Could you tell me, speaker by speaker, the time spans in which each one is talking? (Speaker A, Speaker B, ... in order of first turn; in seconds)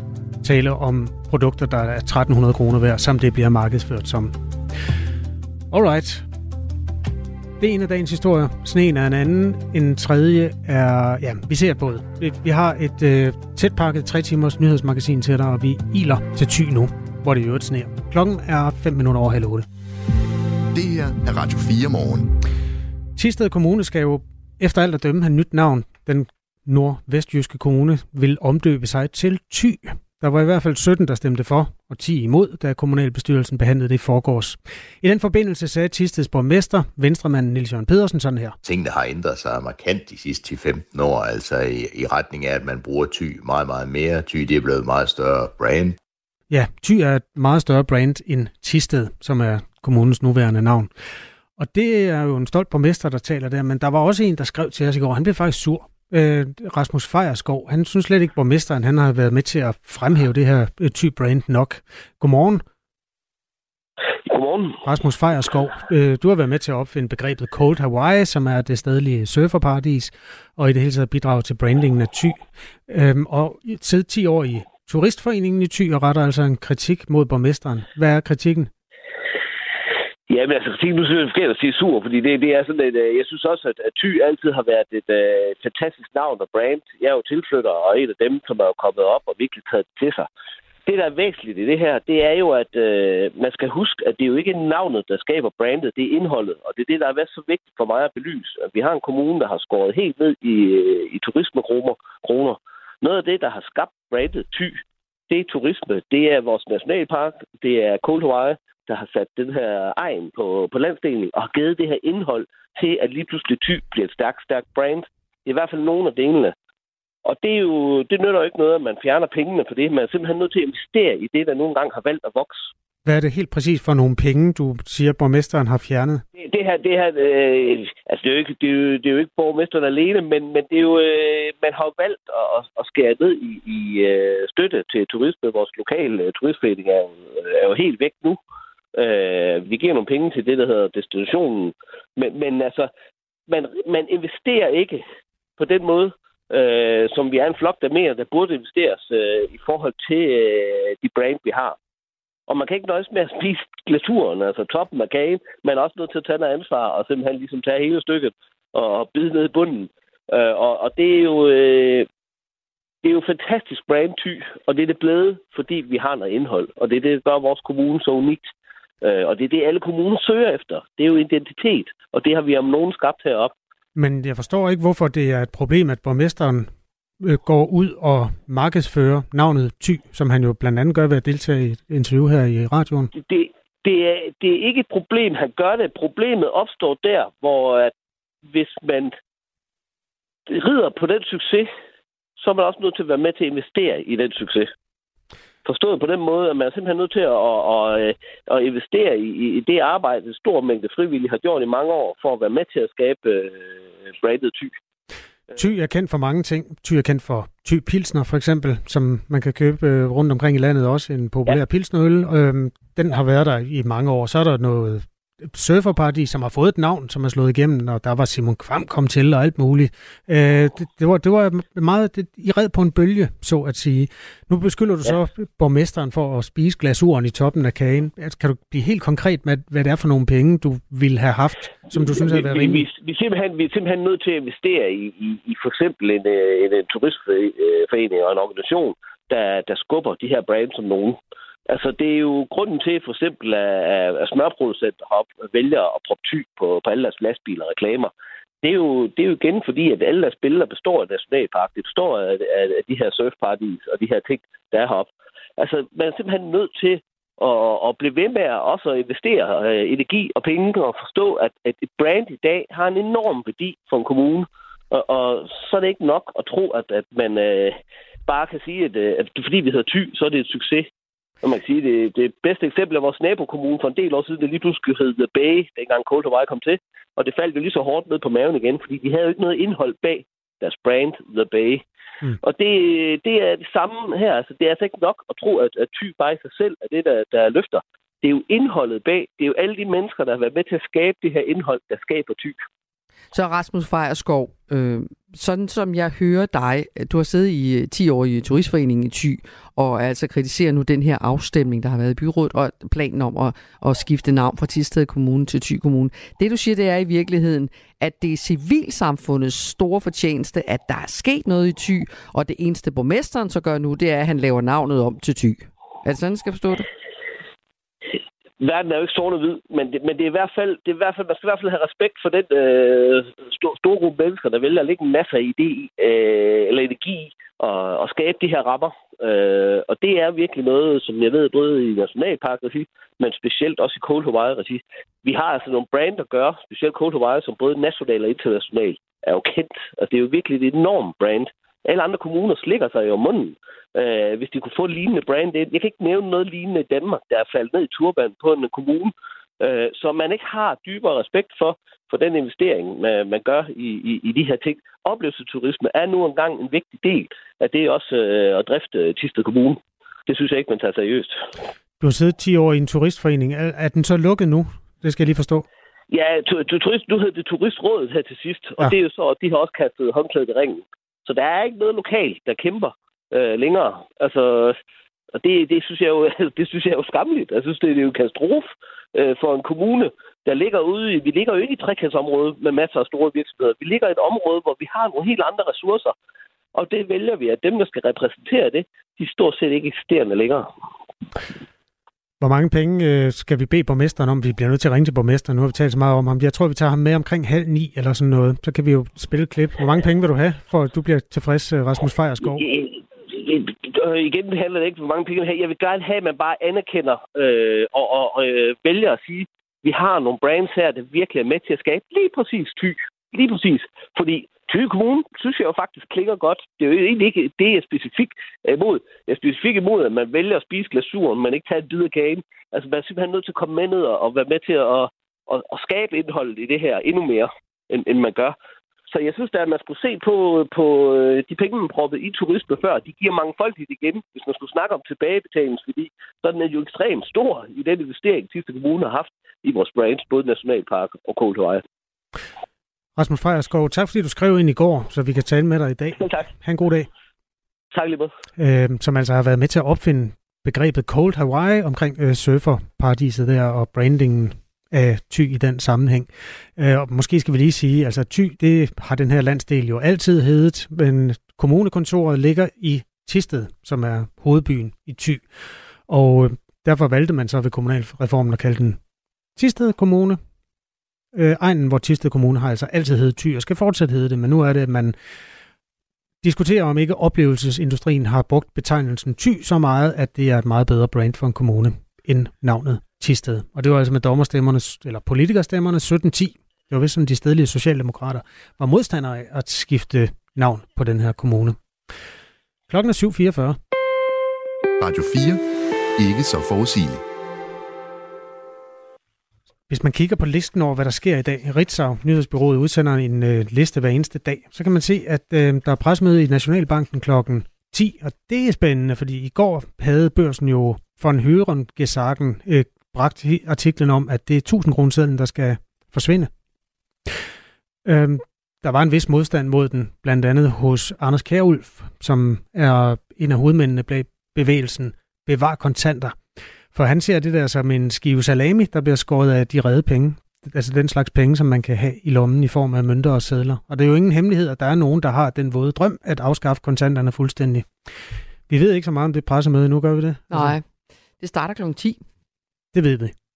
Speaker A: 0.4-4.3, 5.7-6.2, 7.6-19.7, 23.1-38.6, 46.5-50.9, 51.6-62.6, 64.8-78.7, 123.0-126.2, 173.9-183.1, 205.6-232.9, 362.0-365.6, 392.4-402.6, 443.1-447.1, 448.6-465.4, 466.1-469.0, 469.6-470.4, 471.3-475.1, 476.4-491.8, 492.9-493.8, 499.9-516.5, 518.0-526.4, 526.9-537.9, 538.7-540.8, 542.9-543.3
Speaker B: 20.7-22.3, 495.0-495.6, 496.2-497.2
Speaker C: 38.6-46.0
Speaker D: 64.2-64.8, 80.3-90.3, 90.8-116.5, 117.2-122.7, 126.4-138.4, 138.9-142.9, 143.5-145.0, 145.6-151.8, 152.5-162.1, 163.0-168.5, 169.0-173.5, 183.1-187.9, 188.5-189.1, 190.5-191.7, 192.4-194.7, 195.6-204.7, 231.9-270.9, 271.4-281.8, 282.4-292.6, 318.6-361.4, 366.1-374.8, 375.4-386.1, 386.8-390.7, 402.5-428.5, 429.1-441.8, 446.2-446.5, 447.9-448.3
Speaker E: 293.3-316.9, 540.5-540.8, 541.4-542.2